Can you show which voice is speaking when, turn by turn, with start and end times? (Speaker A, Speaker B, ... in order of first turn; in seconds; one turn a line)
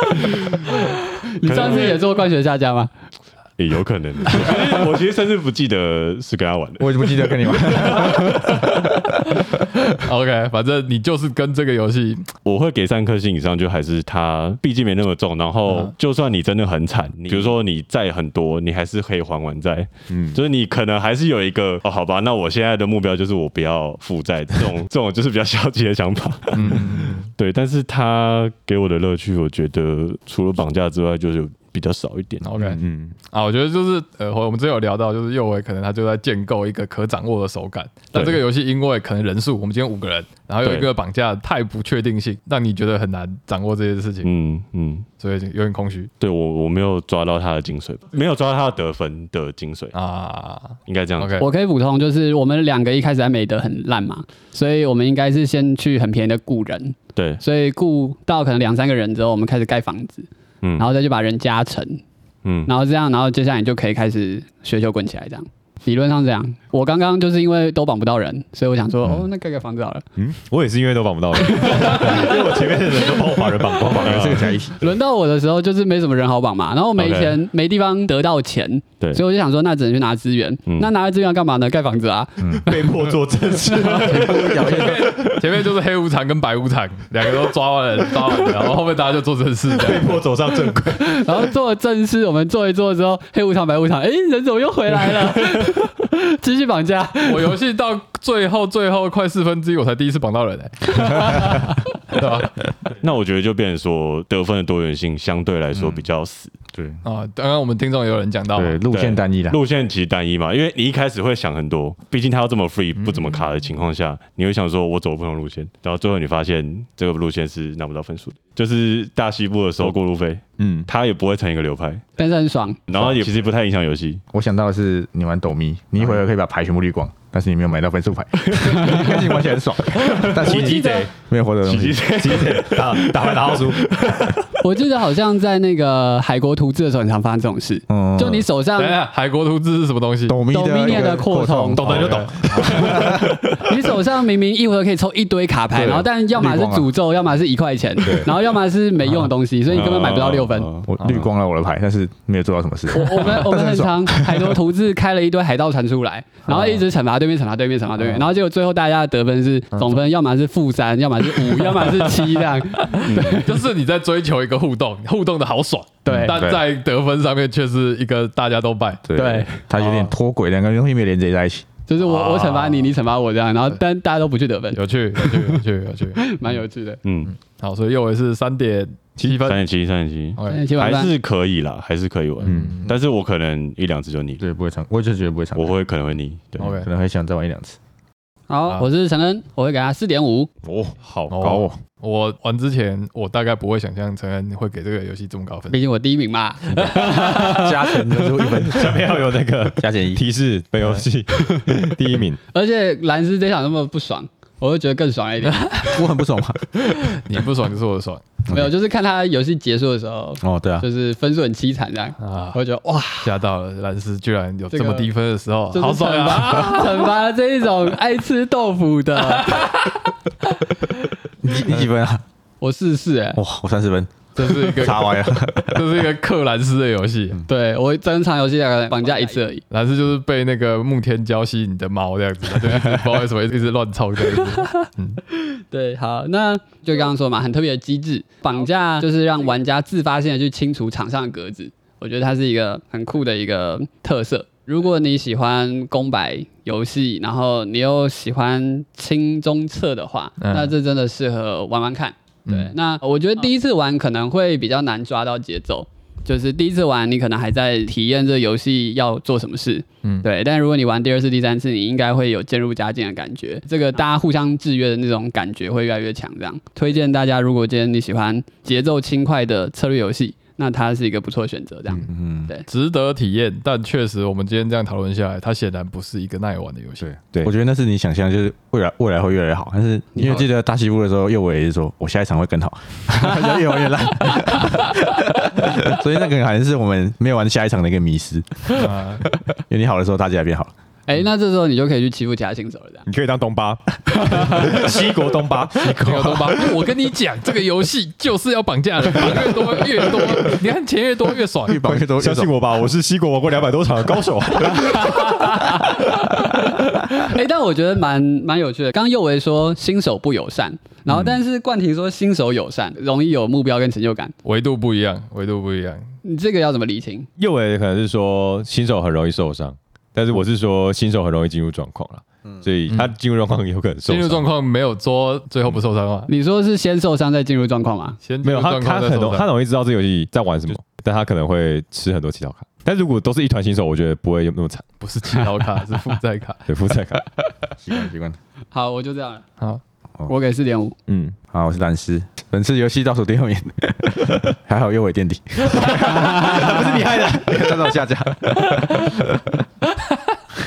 Speaker A: 1.2-2.9
Speaker B: 1.4-2.0
Speaker C: 3.6-8.5
Speaker D: 6.8-9.1
Speaker B: 7.9-8.2
Speaker B: 9.4-12.3
Speaker C: 12.4-32.5
Speaker E: 20.1-20.4
Speaker B: 26.5-27.3
Speaker B: 32.4-44.3
Speaker E: 32.6-33.2
Speaker C: 40.6-40.9
Speaker C: 44.2-45.1
Speaker B: 45.2-46.1
Speaker C: 46.2-49.9
Speaker B: 49.9-51.5
Speaker C: 50.9-51.4
Speaker A: 51.4-62.0
Speaker C: 57.2-57.4
Speaker C: 60.6-60.9
Speaker C: 62.4-62.7
Speaker A: 62.7-70.0
Speaker E: 70.2-74.5
Speaker A: 71.5-72.5
Speaker D: 73.8-74.8
Speaker A: 74.8-83.0
Speaker C: 77.0-77.4
Speaker D: 82.4-82.7
Speaker E: 82.6-85.4
Speaker D: 83.8-85.3
Speaker B: 84.1-90.2
Speaker E: 89.7-91.4
Speaker A: 91.0-97.5
Speaker B: 97.2-102.6
Speaker C: 103.0-106.5
Speaker D: 105.7-106.1
Speaker D: 106.7-107.0
Speaker B: 107.0-108.8
Speaker D: 108.5-109.6
Speaker C: 108.9-122.0
Speaker B: 113.0-113.4
Speaker E: 120.6-120.9
Speaker A: 122.2-122.8
Speaker C: 122.9-124.2
Speaker D: 122.9-123.3
Speaker D: 124.3-132.1
Speaker C: 128.4-129.3
Speaker C: 130.0-130.2
Speaker A: 130.0-131.1
Speaker E: 130.5-131.0
Speaker C: 131.6-134.3
Speaker E: 132.1-134.1
Speaker A: 134.6-139.0
Speaker D: 137.9-138.5
Speaker B: 138.8-140.4
Speaker D: 140.3-143.4
Speaker A: 140.5-142.2
Speaker B: 141.8-143.2
Speaker E: 141.9-143.2
Speaker A: 142.8-150.7
Speaker D: 145.7-146.9
Speaker E: 148.0-148.3
Speaker C: 149.7-151.2
Speaker D: 150.9-154.6
Speaker A: 152.9-163.7
Speaker D: 156.5-156.8
Speaker B: 158.0-158.3
Speaker B: 159.7-160.0
Speaker B: 161.4-169.1
Speaker C: 163.1-163.4
Speaker D: 166.1-166.7
Speaker A: 166.1-166.3
Speaker D: 169.1-171.7
Speaker A: 169.2-169.6
Speaker B: 169.7-170.1
Speaker A: 171.9-175.5
Speaker B: 172.0-173.0
Speaker B: 174.7-176.4
Speaker A: 176.2-177.0
Speaker C: 177.0-177.3
Speaker B: 177.3-179.6
Speaker C: 179.4-184.4
Speaker B: 180.4-180.7
Speaker A: 180.5-181.1
Speaker E: 182.4-182.8
Speaker B: 182.4-182.9
Speaker D: 184.4-185.8
Speaker C: 185.6-186.7
Speaker B: 186.6-186.9
Speaker D: 186.6-187.8
Speaker A: 188.5-190.5
Speaker E: 190.6-191.8
Speaker B: 191.3-195.8
Speaker A: 195.7-198.3
Speaker D: 197.0-199.2
Speaker E: 198.7-202.4
Speaker D: 199.8-200.2
Speaker A: 202.5-206.0
Speaker B: 205.5-205.8
Speaker D: 205.9-206.7
Speaker B: 206.8-208.3
Speaker A: 208.5-213.4
Speaker D: 210.4-210.9
Speaker B: 212.2-212.6
Speaker B: 213.2-217.1
Speaker A: 214.7-215.1
Speaker A: 215.7-219.9
Speaker B: 219.3-220.0
Speaker D: 221.4-222.2
Speaker A: 222.6-223.4
Speaker D: 223.4-226.0
Speaker B: 224.4-227.4
Speaker A: 227.5-229.6
Speaker B: 229.7-235.2
Speaker A: 234.4-234.7
Speaker A: 235.3-272.7
Speaker B: 250.4-250.7
Speaker B: 252.5-252.7
Speaker D: 272.1-272.5
Speaker B: 272.7-277.1
Speaker D: 277.0-290.7
Speaker B: 288.7-289.2
Speaker A: 291.1-293.1
Speaker E: 293.1-296.6
Speaker B: 295.9-302.0
Speaker D: 301.7-302.5
Speaker E: 302.2-306.6
Speaker A: 305.1-305.9
Speaker A: 307.1-314.3
Speaker B: 314.4-316.1
Speaker A: 316.2-317.3
Speaker E: 317.4-324.5
Speaker B: 324.1-326.3
Speaker A: 326.3-328.2
Speaker B: 328.2-329.5
Speaker E: 328.4-334.9
Speaker B: 335.0-336.6
Speaker E: 336.7-337.2
Speaker D: 337.8-338.4
Speaker A: 338.7-339.5
Speaker A: 340.3-340.9
Speaker E: 341.1-341.4
Speaker D: 341.5-349.6
Speaker E: 345.7-347.9